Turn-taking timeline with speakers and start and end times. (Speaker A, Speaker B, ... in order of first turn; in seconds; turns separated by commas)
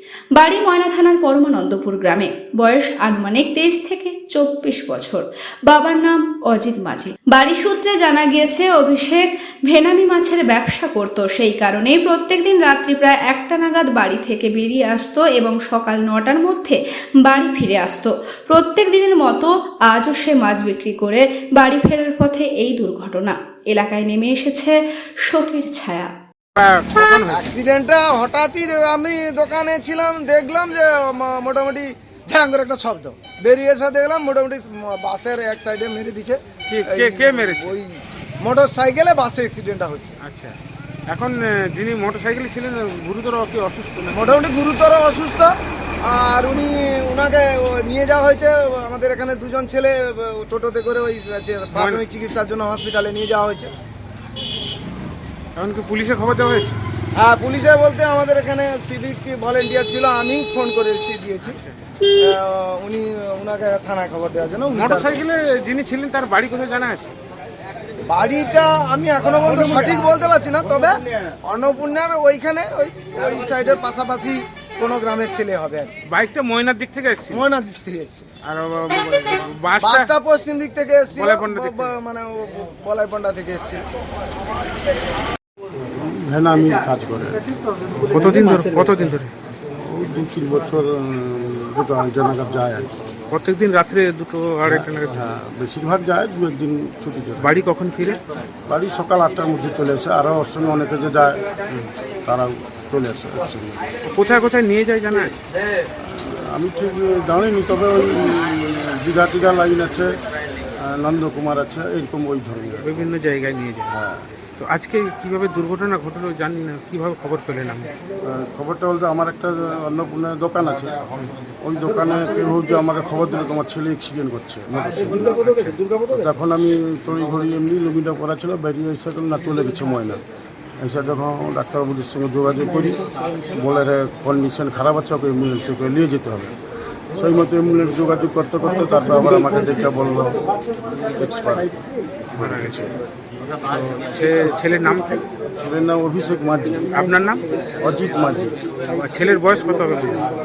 Speaker A: 0.4-26.1, Speaker B: 26.6-27.4, Speaker C: 27.3-40.1, Speaker B: 36.7-37.8, Speaker B: 40.2-40.6, Speaker B: 41.1-44.4, Speaker C: 44.1-45.5, Speaker C: 46.1-53.7, Speaker B: 51.7-52.0, Speaker B: 55.6-56.8, Speaker C: 57.2-61.5, Speaker B: 61.4-61.7, Speaker C: 62.2-65.2, Speaker B: 64.7-67.1, Speaker C: 68.1-75.9, Speaker B: 76.1-77.5, Speaker C: 77.3-78.3, Speaker B: 78.4-80.1, Speaker C: 79.8-83.8, Speaker B: 81.1-81.9, Speaker D: 86.0-87.4, Speaker B: 88.0-89.3, Speaker D: 89.8-92.9, Speaker B: 93.3-95.3, Speaker D: 94.7-97.6, Speaker B: 97.4-98.2, Speaker D: 98.7-101.5, Speaker D: 102.3-103.8, Speaker B: 104.0-105.4, Speaker D: 106.0-110.1, Speaker D: 110.8-113.0, Speaker B: 112.8-113.9, Speaker D: 113.9-114.2, Speaker B: 114.6-117.9, Speaker D: 118.2-121.0, Speaker D: 121.6-125.5, Speaker B: 125.3-125.8, Speaker D: 126.1-130.2, Speaker D: 130.8-136.5, Speaker D: 137.2-140.4, Speaker D: 141.1-141.7, Speaker B: 142.3-142.9, Speaker D: 142.4-142.8, Speaker B: 143.9-145.2, Speaker D: 145.6-147.0, Speaker B: 146.9-147.4, Speaker D: 147.8-148.5, Speaker B: 148.9-150.3